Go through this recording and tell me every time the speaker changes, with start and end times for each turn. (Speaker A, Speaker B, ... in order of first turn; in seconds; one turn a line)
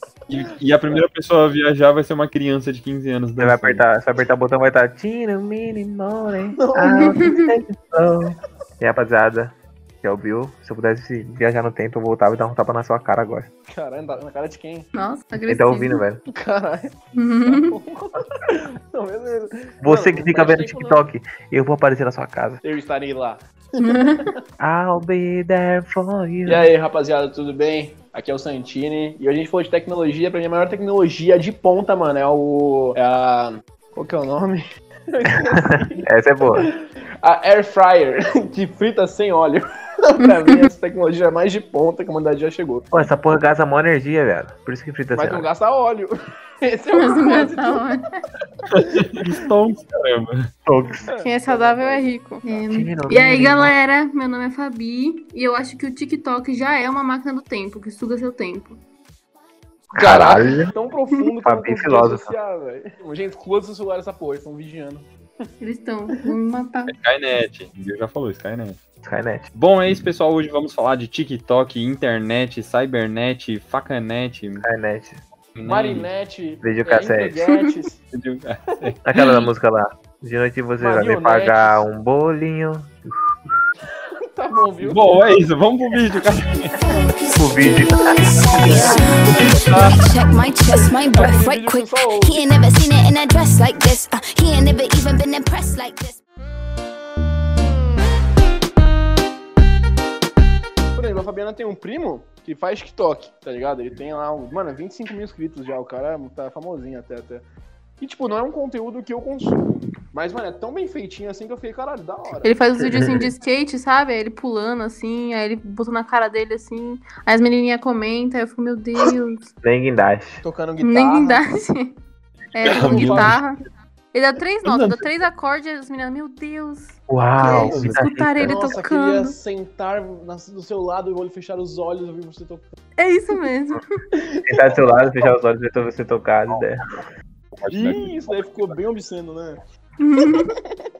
Speaker A: 0.3-3.8
Speaker B: 3.4-13.5
Speaker C: 6.5-7.4
Speaker D: 7.0-7.5
Speaker C: 13.7-14.9
Speaker D: 14.9-16.0
Speaker B: 15.4-16.2
Speaker C: 16.3-21.0
Speaker D: 17.1-17.8
Speaker B: 19.8-22.6
Speaker C: 22.6-24.3
Speaker D: 23.8-24.2
Speaker B: 24.6-26.7
Speaker C: 26.4-42.9
Speaker B: 36.0-36.7
Speaker D: 40.2-40.7
Speaker B: 42.9-45.5
Speaker C: 45.1-47.9
Speaker D: 46.9-48.0
Speaker A: 48.7-50.5
Speaker B: 50.6-51.1
Speaker C: 51.0-52.1
Speaker D: 51.2-58.8
Speaker B: 52.6-53.7
Speaker B: 59.9-60.7
Speaker C: 59.9-65.1
Speaker B: 61.4-62.3
Speaker D: 65.6-67.0
Speaker A: 66.9-68.8
Speaker B: 69.0-69.5
Speaker A: 69.5-74.6
Speaker B: 74.6-75.2
Speaker A: 75.5-76.1
Speaker C: 75.7-78.0
Speaker B: 76.6-77.4
Speaker A: 78.1-79.0
Speaker B: 79.0-83.1
Speaker C: 80.8-81.8
Speaker C: 84.2-85.0
Speaker A: 84.8-86.8
Speaker E: 86.9-96.2
Speaker B: 87.3-88.7
Speaker A: 88.6-90.0
Speaker C: 90.7-92.5
Speaker C: 100.9-107.4
Speaker C: 108.0-112.6
Speaker D: 112.4-119.5
Speaker B: 112.9-113.3
Speaker B: 119.6-120.4
Speaker C: 120.4-121.4
Speaker D: 120.8-122.0
Speaker D: 122.5-123.6
Speaker C: 122.6-123.4
Speaker A: 122.6-123.4
Speaker D: 124.1-129.4
Speaker C: 124.7-125.0
Speaker B: 127.1-128.6
Speaker C: 127.4-127.8
Speaker A: 127.5-128.0
Speaker C: 128.4-132.7
Speaker D: 133.0-133.8
Speaker C: 134.1-134.5
Speaker B: 134.4-136.8
Speaker A: 137.5-138.7
Speaker C: 137.7-139.6
Speaker D: 140.0-140.5
Speaker C: 140.5-140.9